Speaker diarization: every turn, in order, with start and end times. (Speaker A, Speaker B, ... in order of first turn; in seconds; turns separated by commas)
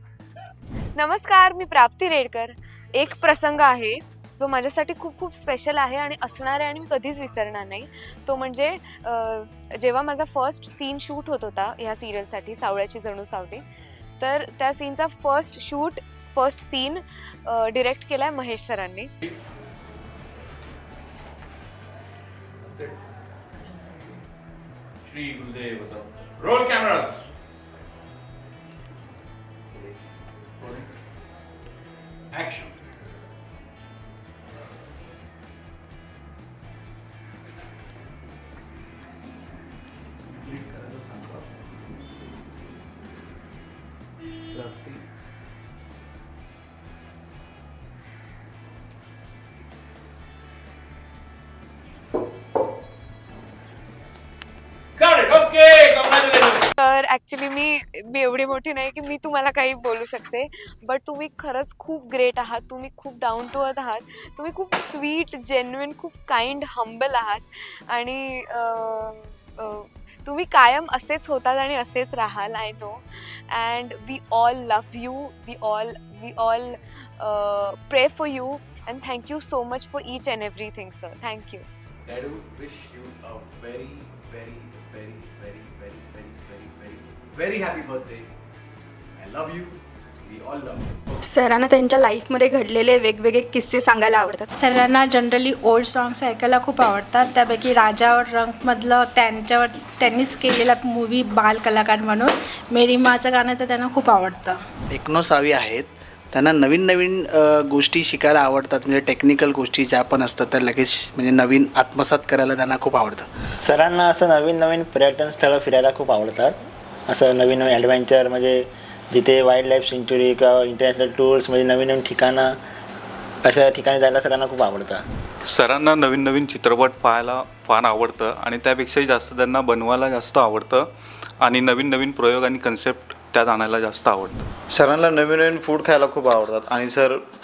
Speaker A: 0.9-13.6, Speaker A: 14.2-19.1, Speaker A: 56.8-81.6, Speaker B: 82.0-88.3, Speaker B: 89.2-90.9, Speaker C: 91.2-94.5, Speaker D: 94.6-104.6, Speaker E: 104.9-113.3, Speaker F: 113.6-116.6, Speaker F: 117.1-122.5, Speaker F: 123.4-125.0, Speaker G: 125.5-130.9, Speaker G: 131.4-134.4, Speaker H: 134.8-137.2